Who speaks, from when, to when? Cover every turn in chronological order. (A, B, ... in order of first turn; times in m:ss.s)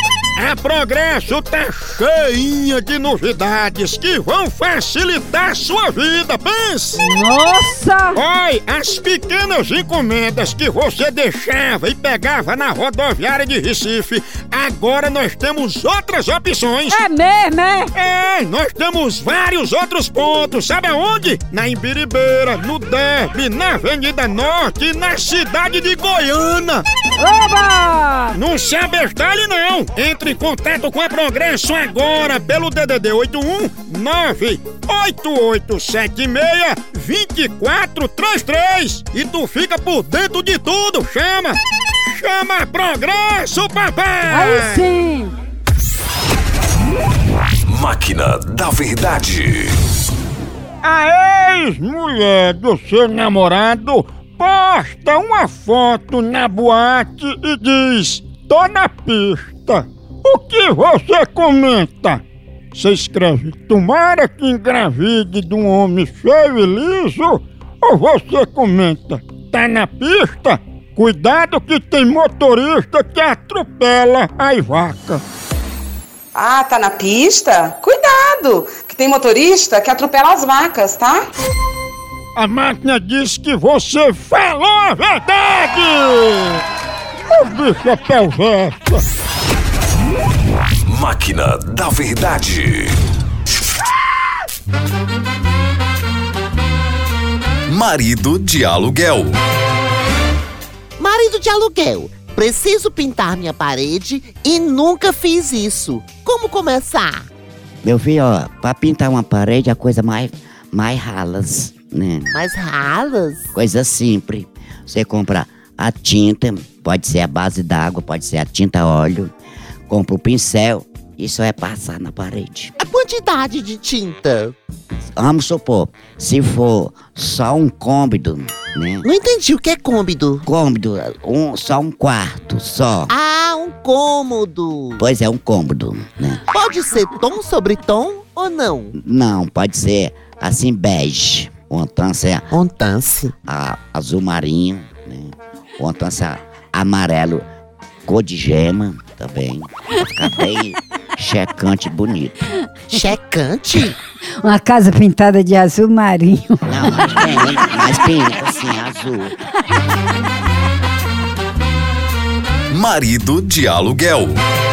0:00.4-0:07.0 A
0:07.0-0:08.2 B
0:08.1-0:17.0 A
0:16.9-0:17.9 B
0:17.9-0:26.8 A
0:27.2-0:28.4 B
0:28.3-0:44.9 A
0:44.3-0:45.3 B
0:47.7-0:49.8 C
0:50.8-1:02.2 A
1:02.7-1:15.2 A
1:16.4-1:21.3 D
1:22.4-1:26.6 A
1:27.3-1:29.0 A
1:30.9-1:33.0 C
1:37.7-1:39.4 C
1:41.0-1:47.3 E
1:47.8-1:52.4 F
1:52.3-1:53.5 E
1:53.5-1:59.3 F
1:59.9-2:02.7 F
2:02.8-2:04.5 E
2:05.0-2:09.1 F
2:09.0-2:10.4 E
2:10.4-2:13.1 F
2:13.1-2:15.0 E
2:15.0-2:16.4 F
2:16.5-2:19.0 E
2:19.0-2:22.5 F
2:22.5-2:23.3 E
2:23.5-2:27.5 F
2:28.1-2:32.5 F
2:32.9-2:34.0 E
2:34.4-2:37.4 B
2:36.7-2:39.4 F
2:42.7-2:44.4 C